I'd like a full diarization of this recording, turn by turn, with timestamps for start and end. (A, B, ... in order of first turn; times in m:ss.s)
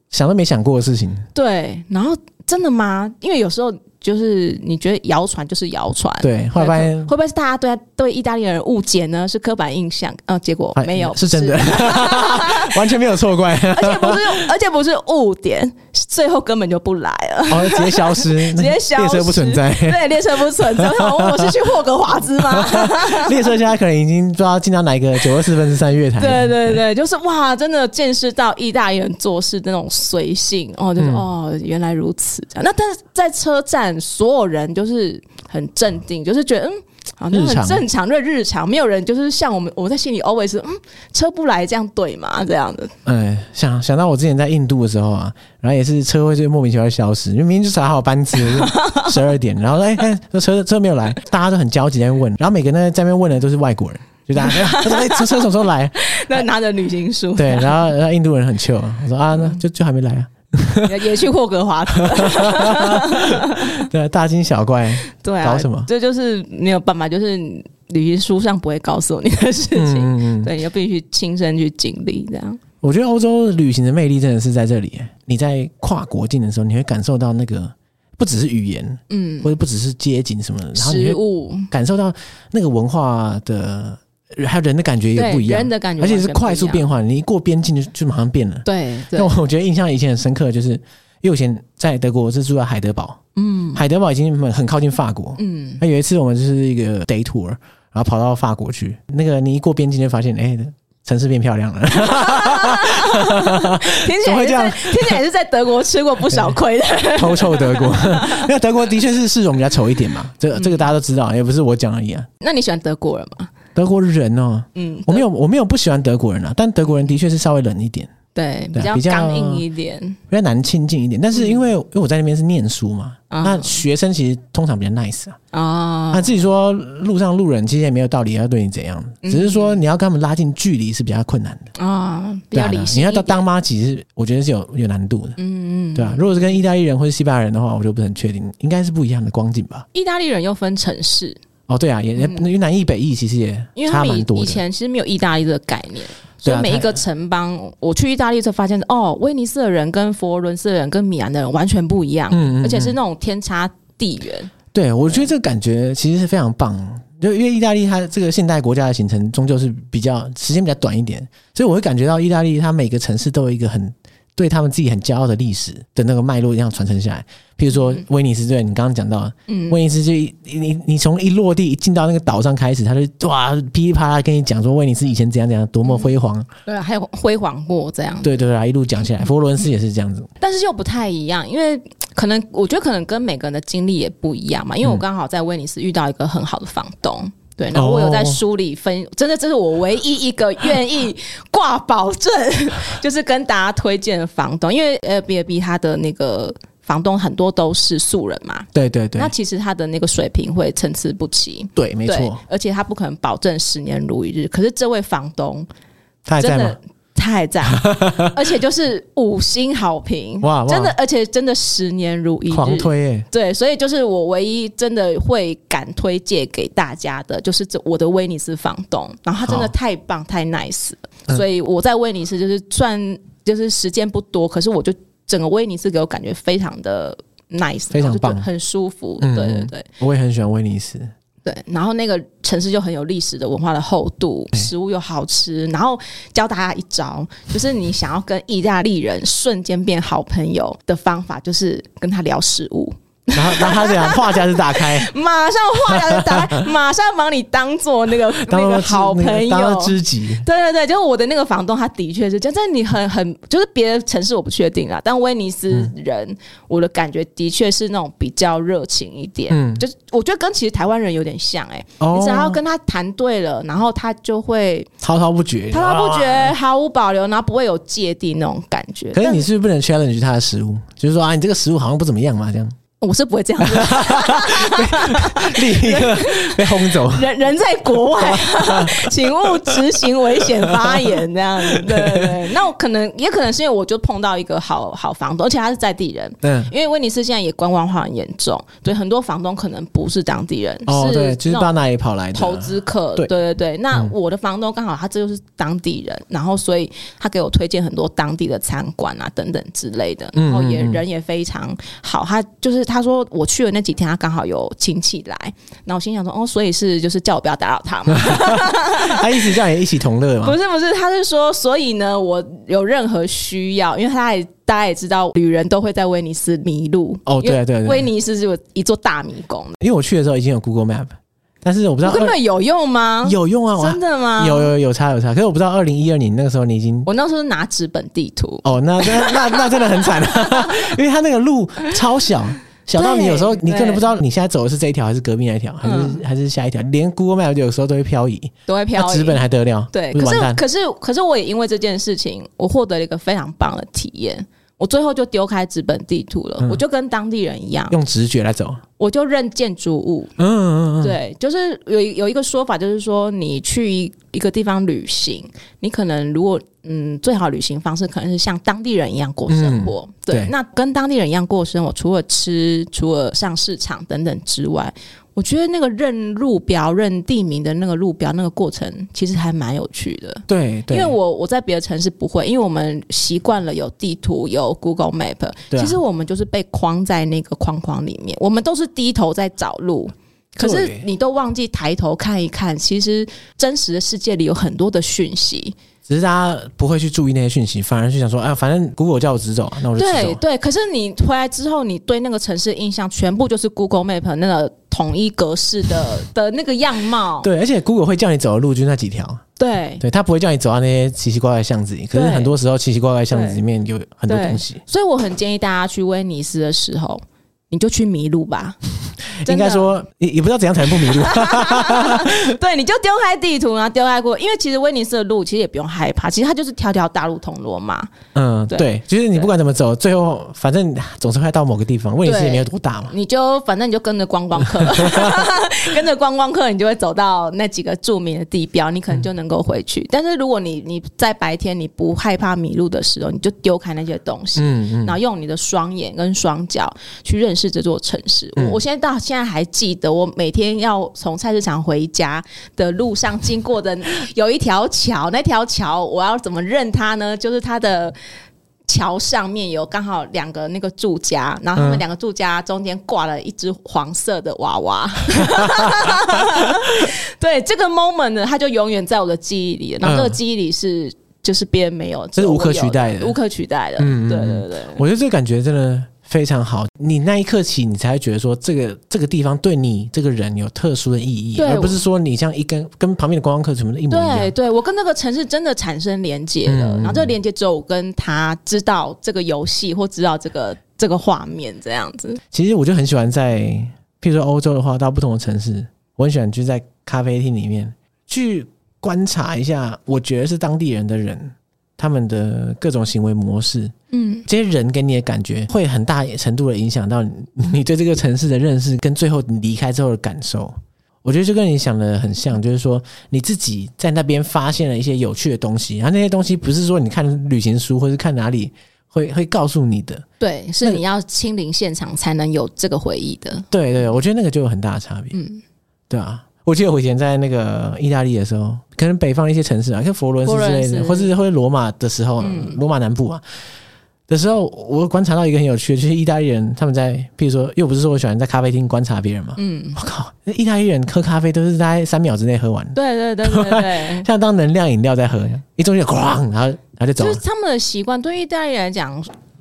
0:00.1-0:01.3 A
0:01.4-0:12.8 B
0:06.2-0:07.1 A
0:10.8-0:14.5 A
0:13.7-0:23.6 B
0:17.5-0:20.0 A
0:20.6-0:21.5 A
0:22.4-0:26.8 A
0:26.2-0:42.9 B
0:31.0-0:31.2 A
0:37.3-0:37.8 A
0:43.0-0:56.4 A
0:48.5-0:49.1 B
0:54.4-0:57.8 B
0:57.4-1:01.0 A
1:00.8-1:03.8 B
1:02.0-1:05.9 A
1:05.1-1:12.6 B
1:09.8-1:10.5 A
1:12.8-1:21.2 A
1:19.1-1:19.5 B
1:20.8-1:21.7 B
1:21.7-1:33.2 A
1:25.2-1:26.9 B
1:28.7-1:29.4 B
1:33.4-1:33.8 B
1:33.8-1:45.2 A
1:35.4-1:35.8 B
1:42.0-1:48.5 B
1:46.3-1:46.6 A
1:47.2-1:52.3 A
1:50.6-1:50.9 B
1:52.4-1:53.5 B
1:53.8-1:58.1 A
1:54.8-1:55.2 B
1:58.4-2:00.2 B
1:58.7-1:59.6 A
2:00.3-2:05.4 A
2:03.3-2:03.8 B
2:05.5-2:06.3 B
2:06.1-2:11.7 A
2:09.2-2:09.8 B
2:11.8-2:13.4 B
2:12.5-2:15.4 A
2:15.4-2:16.6 B
2:16.0-2:19.9 A
2:19.9-2:21.4 B
2:21.7-2:24.6 A
2:22.2-2:22.4 B
2:23.8-2:34.5 B
2:26.4-2:27.0 A
2:32.3-2:33.0 A
2:34.7-2:56.5 A
2:49.5-2:49.8 B
2:56.7-2:58.4 B
2:58.2-3:00.3 A
3:00.4-3:25.7 B
3:07.7-3:08.4 A
3:18.7-3:19.3 A
3:21.8-3:22.4 A
3:26.3-3:26.8 A
3:26.4-3:49.9 B
3:27.8-3:28.3 A
3:30.4-3:31.0 A
3:32.5-3:33.3 A
3:39.4-3:39.7 A
3:47.9-3:48.4 A
3:49.2-3:51.1 A
3:51.4-4:24.9 B
4:03.3-4:05.1 A
4:05.9-4:06.6 A
4:08.4-4:10.4 A
4:19.5-4:19.8 A
4:22.0-4:22.6 A
4:25.0-4:26.5 A
4:25.7-4:29.5 B
4:29.2-4:32.7 A
4:33.0-4:51.7 B
4:33.6-4:37.3 A
4:38.2-4:42.3 A
4:46.4-4:46.7 A
4:50.9-4:53.3 A
4:52.3-5:09.6 B
5:00.4-5:01.0 A
5:08.2-5:10.6 A
5:10.4-5:19.8 B
5:17.3-5:18.1 A
5:19.8-5:21.1 A
5:21.6-5:22.4 A
5:22.0-5:24.7 B
5:23.2-5:27.1 A
5:27.1-5:30.9 B
5:28.6-5:40.6 A
5:33.0-5:34.1 B
5:35.8-5:36.2 B
5:38.7-5:48.0 B
5:47.9-5:48.8 A
5:49.0-5:50.3 B
5:50.4-5:51.2 A
5:51.0-6:25.8 B
5:59.5-6:00.5 A
6:10.5-6:11.2 A
6:15.7-6:16.0 A
6:20.6-6:21.0 A
6:26.1-6:30.4 A
6:30.0-6:37.5 B
6:37.4-6:39.4 A
6:39.6-6:40.0 B
6:40.0-6:44.8 A
6:42.1-6:42.5 B
6:43.3-6:43.6 B
6:44.3-6:48.8 B
6:49.4-6:52.6 A
6:49.4-6:50.0 B
6:51.0-6:58.1 B
6:58.4-7:03.1 A
7:02.2-7:28.2 B
7:04.8-7:05.4 A
7:14.6-7:15.2 A
7:28.9-7:45.0 B
7:31.8-7:32.0 A
7:35.4-7:36.9 A
7:40.0-7:40.4 A
7:42.4-7:43.4 A
7:44.0-7:54.5 A
7:51.6-7:52.0 B
7:54.1-8:02.4 B
7:56.7-7:57.3 A
8:02.5-8:13.9 A
8:14.1-8:14.5 B
8:14.5-8:30.2 A
8:30.4-8:33.7 B
8:33.7-8:35.4 A
8:35.3-8:35.6 B
8:36.1-8:43.4 A
8:40.4-8:41.3 B
8:42.4-8:42.8 B
8:44.3-8:57.4 A
8:49.6-8:50.0 B
8:53.0-8:54.3 B
8:57.2-8:59.3 B